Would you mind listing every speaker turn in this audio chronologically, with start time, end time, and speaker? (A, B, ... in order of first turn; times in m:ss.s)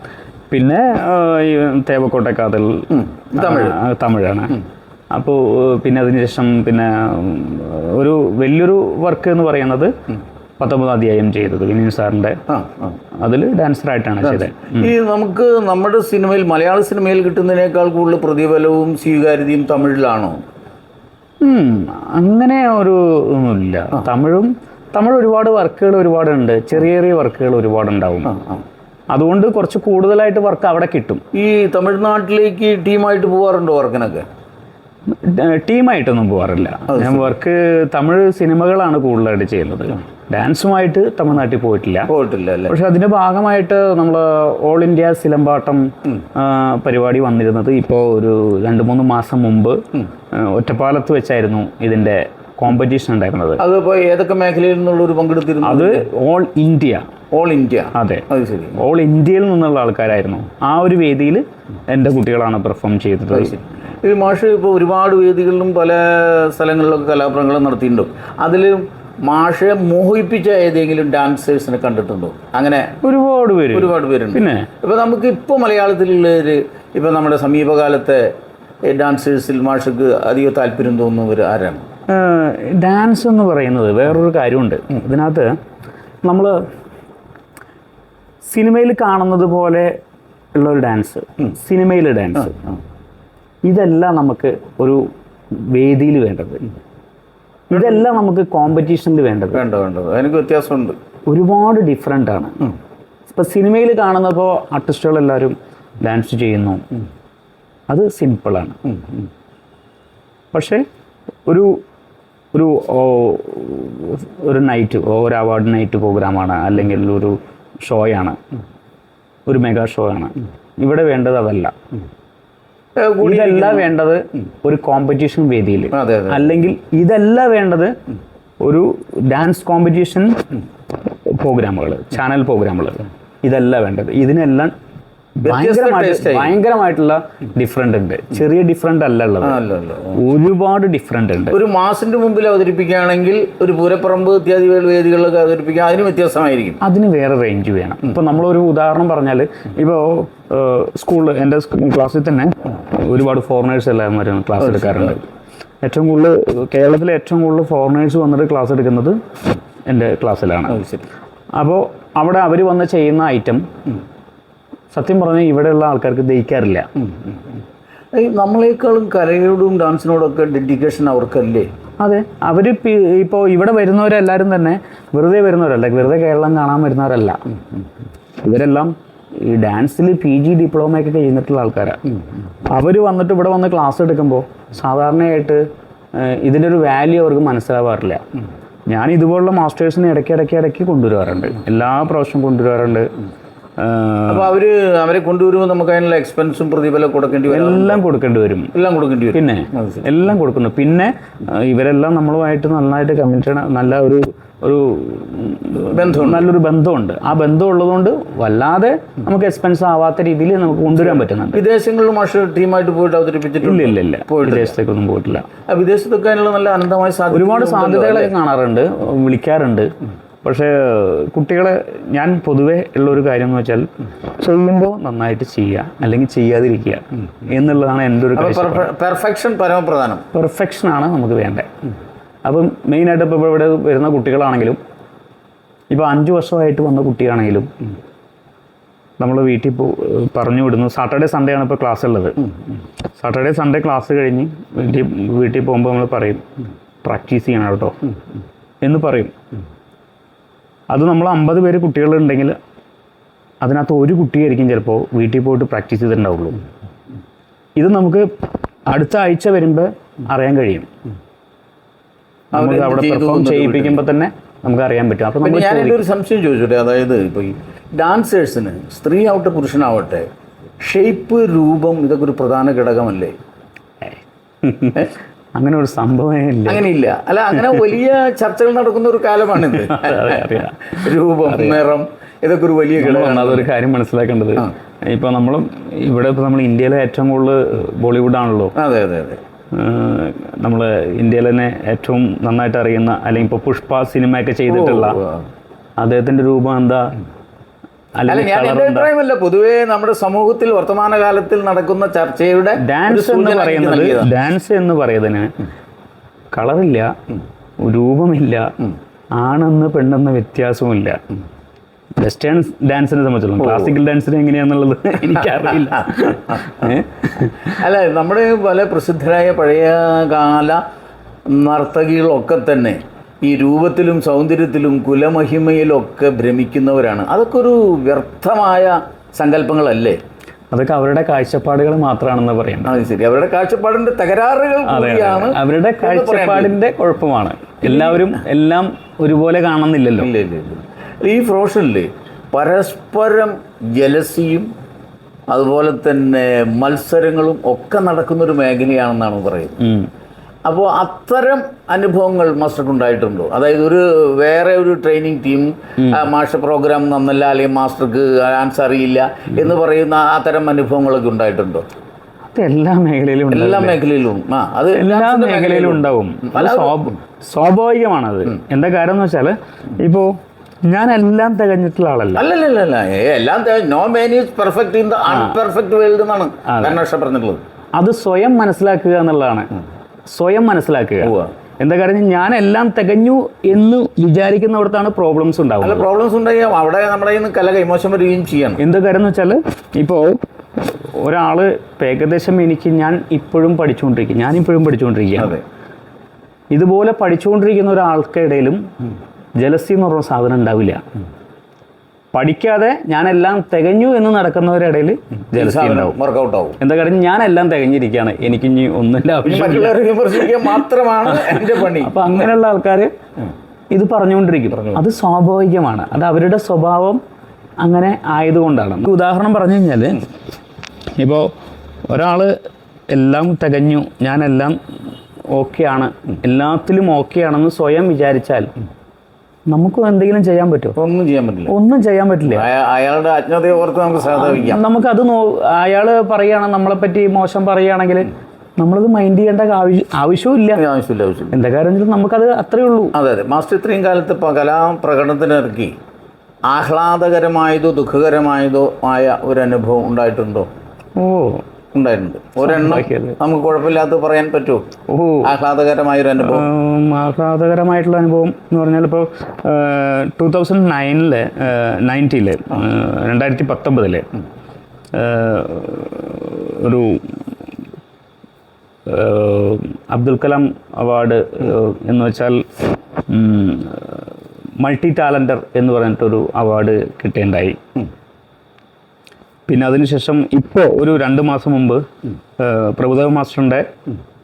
0:00.5-0:04.6 A
0:02.9-0:03.8 B
0:05.1-0:09.9 A
0:10.6-0:12.4 A
0:12.5-0:13.0 B
0:13.1-0:14.9 A
0:14.2-0:20.4 B
0:21.4-0:28.3 A
0:28.2-0:28.6 B
0:29.1-0:31.2 A
0:31.3-0:34.3 B
0:35.1-0:42.1 A
0:36.9-0:37.4 B
0:42.1-0:42.7 B
0:42.7-0:53.6 A
0:53.6-0:56.1 B
0:55.6-0:57.1 A
0:57.3-0:58.8 B
0:57.9-1:03.6 A
1:03.3-1:13.0 B
1:13.0-1:14.7 A
1:13.7-1:18.3 B
1:18.8-1:21.8 B
1:22.1-1:25.6 A
1:26.3-1:26.6 A
1:28.5-1:29.9 A
1:30.5-1:32.6 A
1:33.6-1:36.6 A
1:37.7-1:39.6 A
1:37.8-1:38.0 B
1:39.6-1:41.0 B
1:41.3-1:42.6 A
1:43.3-1:46.8 A
1:47.9-1:48.8 A
1:50.5-1:50.8 A
1:51.5-1:51.8 A
1:52.5-1:58.4 A
1:59.5-2:01.8 A
2:03.0-2:03.9 B
2:03.2-2:08.0 A
2:05.9-2:06.5 B
2:08.6-2:10.5 A
2:11.0-2:14.7 A
2:15.4-2:16.6 B
2:15.4-2:19.6 A
2:19.4-2:20.2 B
2:20.1-2:21.6 A
2:21.5-2:26.8 B
2:26.8-2:35.3 A
2:34.6-2:35.2 B
2:35.8-2:39.2 A
2:39.9-2:40.8 A
2:40.7-2:41.0 B
2:41.6-2:43.7 A
2:44.9-2:46.9 A
2:47.0-2:47.4 B
2:48.1-2:51.7 B
2:52.0-2:57.4 A
2:58.4-3:02.0 A
3:02.7-3:08.2 A
3:08.9-3:13.1 A
3:13.8-3:14.5 A
3:14.3-3:18.0 B
3:17.5-3:18.7 A
3:18.7-3:20.0 B
3:19.3-3:31.6 A
3:25.9-3:26.5 B
3:31.5-3:34.8 B
3:33.6-3:35.5 A
3:35.6-3:38.3 B
3:37.3-3:39.9 A
3:40.4-3:48.9 A
3:48.3-3:50.3 B
3:50.3-3:51.7 A
3:52.4-3:54.8 A
3:55.9-3:57.7 A
3:59.2-4:02.4 A
4:03.2-4:06.5 A
4:07.0-4:08.0 A
4:08.8-4:09.3 A
4:10.9-4:12.6 A
4:13.6-4:16.6 A
4:17.8-4:18.3 A
4:18.9-4:20.9 A
4:22.5-4:24.0 B
4:22.6-4:26.0 A
4:25.4-4:30.3 B
4:30.8-4:33.4 B
4:34.1-4:36.8 A
4:36.7-4:43.7 B
4:39.7-4:41.8 A
4:43.0-4:48.8 A
4:48.8-4:49.4 B
4:49.7-4:55.2 A
4:54.7-4:55.5 B
4:56.0-4:57.2 A
4:58.2-4:59.1 A
4:58.3-5:04.3 B
5:02.8-5:05.6 A
5:06.5-5:07.2 A
5:07.8-5:08.7 A
5:09.4-5:11.2 A
5:12.2-5:17.8 A
5:13.6-5:14.0 B
5:16.0-5:17.0 B
5:17.7-5:20.8 B
5:21.5-5:30.2 B
5:30.7-5:33.0 A
5:32.8-5:36.7 B
5:34.9-5:40.3 A
5:37.8-5:38.4 B
5:40.2-5:44.7 B
5:45.5-5:49.8 B
5:49.8-5:50.1 A
5:50.7-6:01.8 B
6:02.5-6:04.0 A
6:03.5-6:07.2 B
6:05.0-6:10.4 A
6:10.9-6:12.4 A
6:12.4-6:17.6 B
6:15.3-6:15.6 A
6:16.7-6:17.0 A
6:18.0-6:19.7 A
6:20.3-6:26.1 A
6:21.2-6:21.5 B
6:25.8-6:28.8 B
6:28.8-6:35.6 A
6:35.4-6:35.6 B
6:36.7-6:38.9 A
6:39.6-6:41.1 A
6:42.3-6:46.2 A
6:45.6-6:46.8 B
6:46.8-6:50.8 A
6:49.4-6:52.5 B
6:51.3-6:53.1 A
6:53.9-6:57.2 A
6:54.7-6:55.0 B
6:57.8-7:00.3 A
7:01.2-7:01.5 A
7:02.1-7:02.6 A
7:03.1-7:04.8 A
7:05.5-7:08.7 A
7:09.7-7:11.0 A
7:11.0-7:11.7 B
7:11.7-7:12.7 A
7:12.5-7:14.8 B
7:14.3-7:20.8 A
7:20.8-7:21.5 B
7:21.5-7:23.2 A
7:23.2-7:26.0 B
7:26.7-7:30.7 B
7:31.2-7:31.6 A
7:31.9-7:34.8 B
7:32.6-7:33.4 A
7:35.1-7:35.5 A
7:35.4-7:36.7 B
7:36.4-7:44.3 A
7:45.1-7:47.4 A
7:49.1-7:57.8 A
7:59.7-8:02.1 A
8:02.6-8:03.9 A